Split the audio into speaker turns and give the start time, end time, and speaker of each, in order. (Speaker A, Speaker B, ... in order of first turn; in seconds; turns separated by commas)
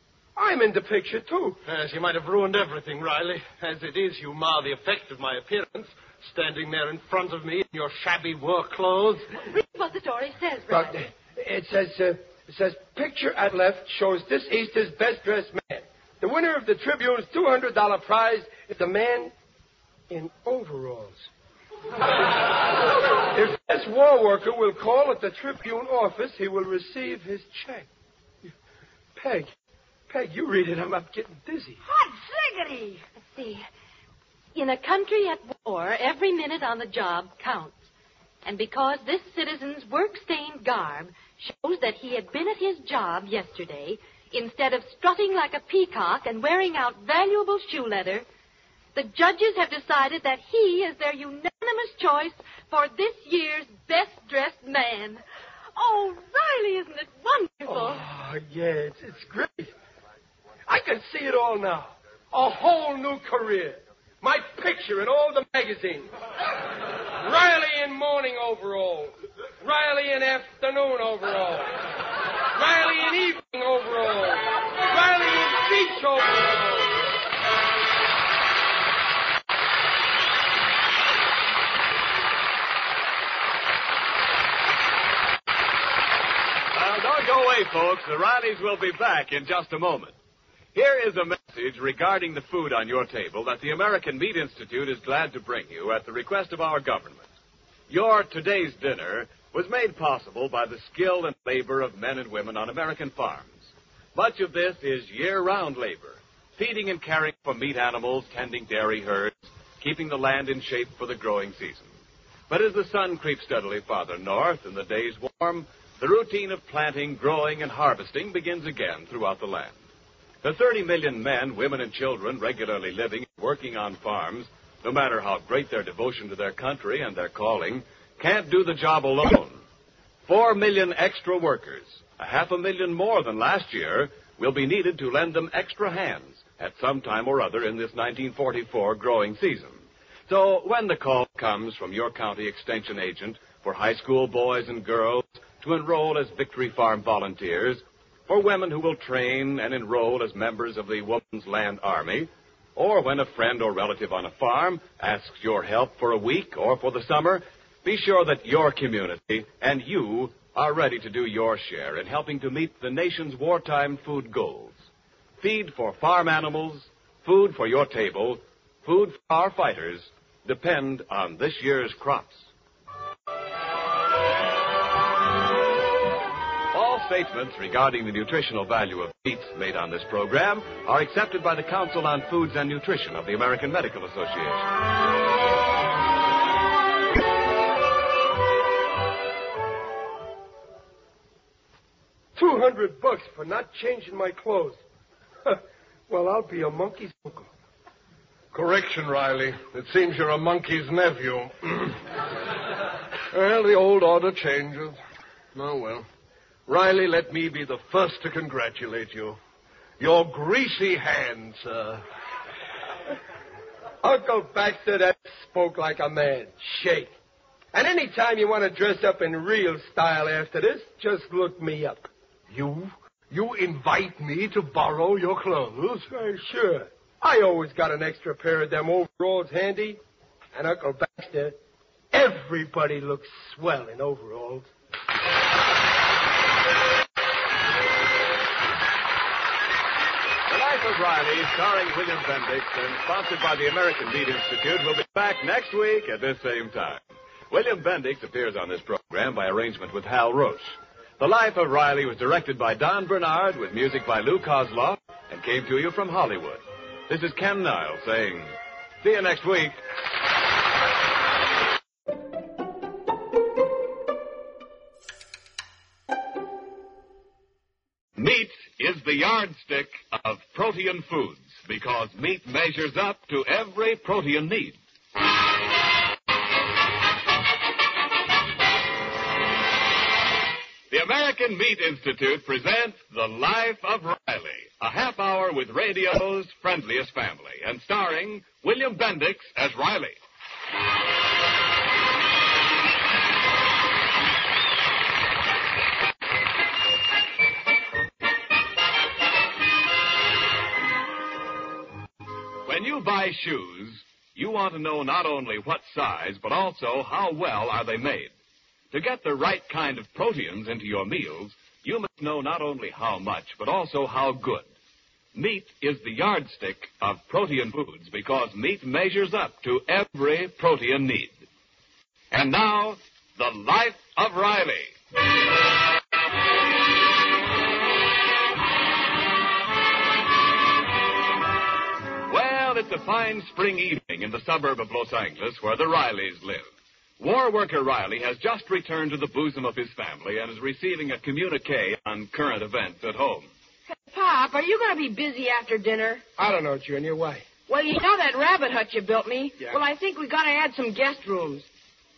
Speaker A: 0.4-1.6, Speaker B: 1.6-9.3, Speaker C: 9.4-11.0, Speaker A: 10.7-19.3, Speaker A: 20.1-21.3, Speaker A: 23.3-27.9, Speaker A: 29.2-29.5, Speaker A: 30.1-31.8, Speaker D: 31.9-33.0, Speaker C: 33.2-33.7, Speaker C: 34.5-37.8, Speaker C: 38.5-48.2, Speaker C: 49.0-55.2, Speaker C: 55.8-58.0, Speaker A: 57.7-59.7, Speaker A: 60.7-66.1, Speaker A: 67.2-71.8, Speaker A: 72.5-77.0, Speaker E: 86.7-90.1, Speaker E: 90.7-97.3, Speaker E: 97.9-111.9, Speaker E: 112.5-119.8, Speaker E: 120.4-129.6, Speaker E: 130.3-164.8, Speaker E: 165.4-172.5, Speaker E: 176.7-184.7, Speaker A: 192.4-194.8, Speaker A: 195.4-197.5, Speaker B: 198.5-202.0, Speaker B: 203.3-205.0, Speaker B: 205.5-206.1, Speaker B: 206.7-209.4, Speaker B: 210.0-212.0, Speaker A: 214.0-217.1, Speaker A: 217.7-222.1, Speaker B: 222.5-226.1, Speaker A: 226.1-230.0, Speaker A: 230.5-231.6, Speaker A: 232.1-234.7, Speaker E: 240.5-259.8, Speaker E: 268.2-274.8, Speaker E: 280.9-290.2, Speaker E: 302.6-308.3, Speaker E: 308.9-314.6, Speaker E: 315.4-321.4, Speaker E: 322.3-324.9, Speaker E: 332.3-336.7, Speaker E: 337.2-343.5, Speaker D: 343.9-346.2, Speaker A: 346.4-347.5, Speaker D: 347.7-351.7